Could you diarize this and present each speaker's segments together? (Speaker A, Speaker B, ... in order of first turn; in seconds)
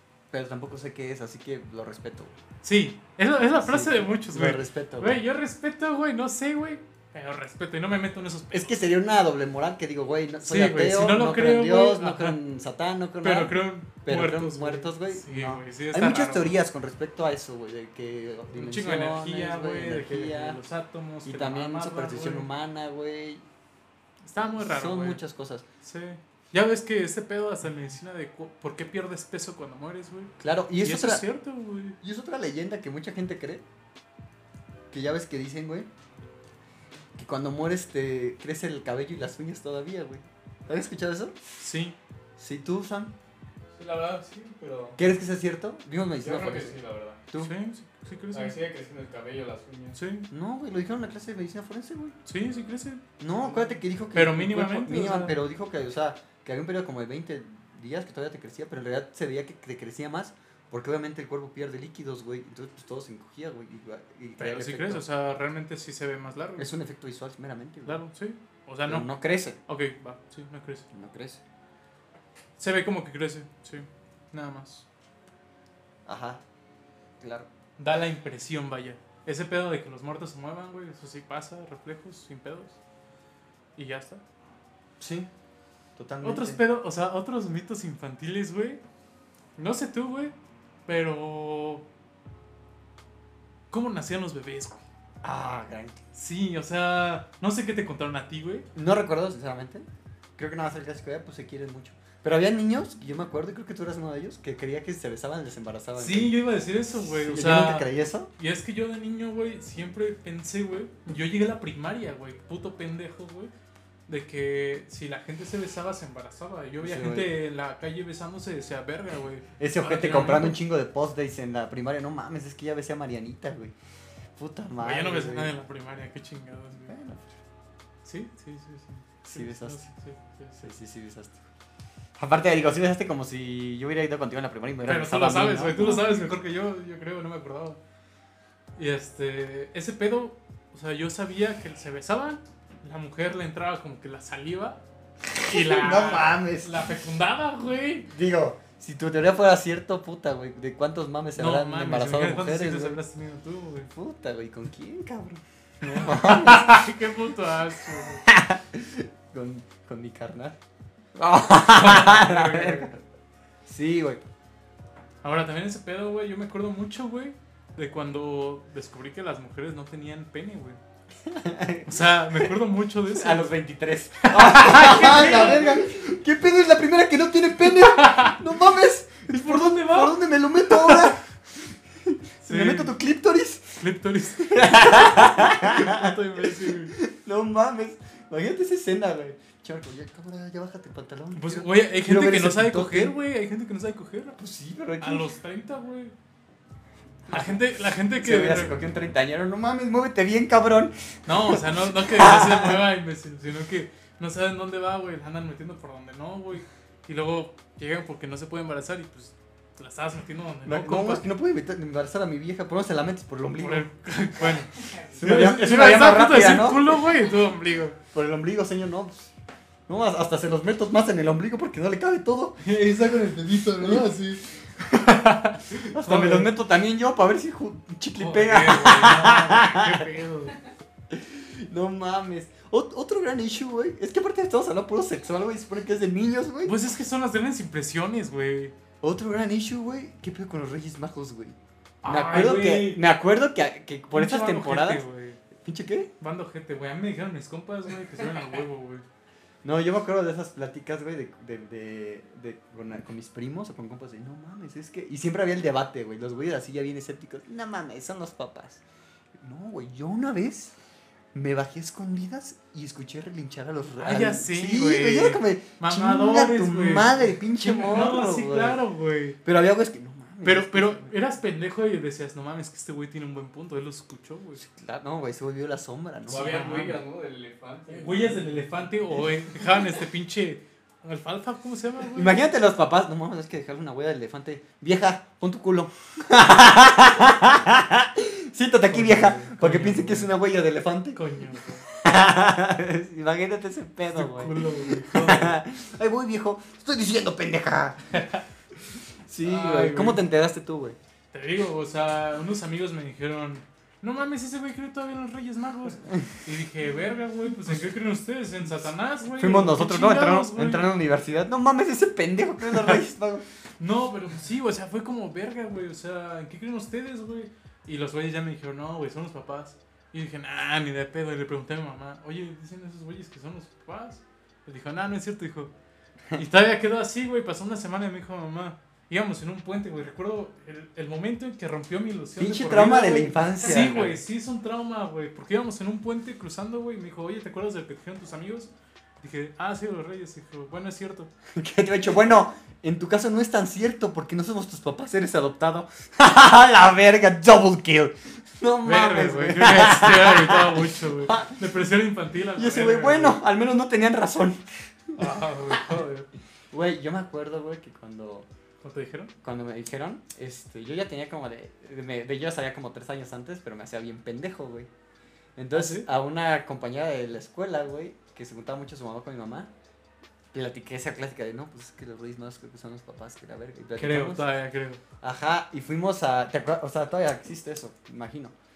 Speaker A: 0.3-2.4, 3.6-5.2, 8.5-20.6, 21.2-23.4, 24.4-25.6, 30.4-31.2, 32.0-33.6, 34.9-35.9, 37.2-41.4, 42.4-43.1, 45.0-46.8, 50.3-52.1, 53.2-65.0, 66.6-68.0, 68.8-69.6, 70.9-71.4, 76.1-76.4, 77.2-77.5, 85.0-85.3, 86.0-86.6, 95.2-96.0, 98.8-99.9, 100.4-106.4, 107.0-108.3, 116.8-117.3, 119.6-123.7, 124.4-125.5, 126.9-127.3, 129.2-129.9, 130.6-131.4, 132.2-136.3, 145.4-146.8, 148.1-153.0, 153.9-156.9, 158.3-160.6, 161.2-163.0, 163.7-164.2, 171.3-172.5, 173.1-183.8, 184.4-193.2, 194.4-195.3, 197.3-202.8, 210.7-213.9, 215.1-217.0, 218.1-219.3, 219.9-222.6, 223.8-224.1, 225.9-230.1, 231.1-236.8, 239.0-245.0, 245.6-246.1, 249.6-258.8, 259.4-260.7, 261.3-268.8, 269.4-271.1, 274.6-276.9, 282.1-291.2, 292.0-298.0, 299.3-301.0, 309.4-313.4, 332.4-334.2, 341.6-351.6, 352.6-356.0, 356.7-358.5, 359.4-364.9, 365.6-369.7, 370.5-374.5, 375.2-378.5
Speaker B: 2.6-8.8, 10.4-12.4, 13.2-16.6, 18.5-22.5, 24.2-25.2, 25.8-32.0, 41.6-42.0, 47.4-48.6, 50.0-50.3, 52.3-53.0, 54.1-55.4, 64.4-66.7, 67.9-69.1, 69.7-70.9, 72.6-74.8, 77.8-82.8, 83.8-84.2, 86.2-88.8, 89.6-90.3, 90.9-91.8, 93.7-94.8, 96.1-98.7, 106.0-113.5, 114.1-120.6, 124.8-126.9, 128.1-130.6, 134.9-137.8, 138.8-144.8, 145.4-148.1, 151.4-153.9, 155.9-158.2, 161.7-162.9, 165.2-170.8, 171.9-173.6, 174.2-175.8, 177.7-178.4, 179.3-181.2, 182.4-183.0, 183.8-186.9, 191.3-194.4, 195.0-196.1, 197.3-198.8, 201.3-211.3, 213.6-218.0, 222.6-226.5, 228.2-230.6, 236.7-238.7, 242.0-243.0, 244.1-245.4, 246.2-249.0, 264.0-269.4, 270.4-274.6, 276.3-277.0, 277.9-282.4, 288.9-290.3, 291.1-291.9, 294.1-295.6, 298.1-298.4, 299.4-300.2, 301.3-311.0, 312.7-313.0, 313.8-325.7, 326.3-341.3, 348.8-353.4, 355.2-356.3, 358.8-359.3, 365.7-366.1, 374.0-375.0
Speaker C: 43.7-45.0, 46.2-47.2, 48.3-50.0, 53.4-53.8, 276.3-278.8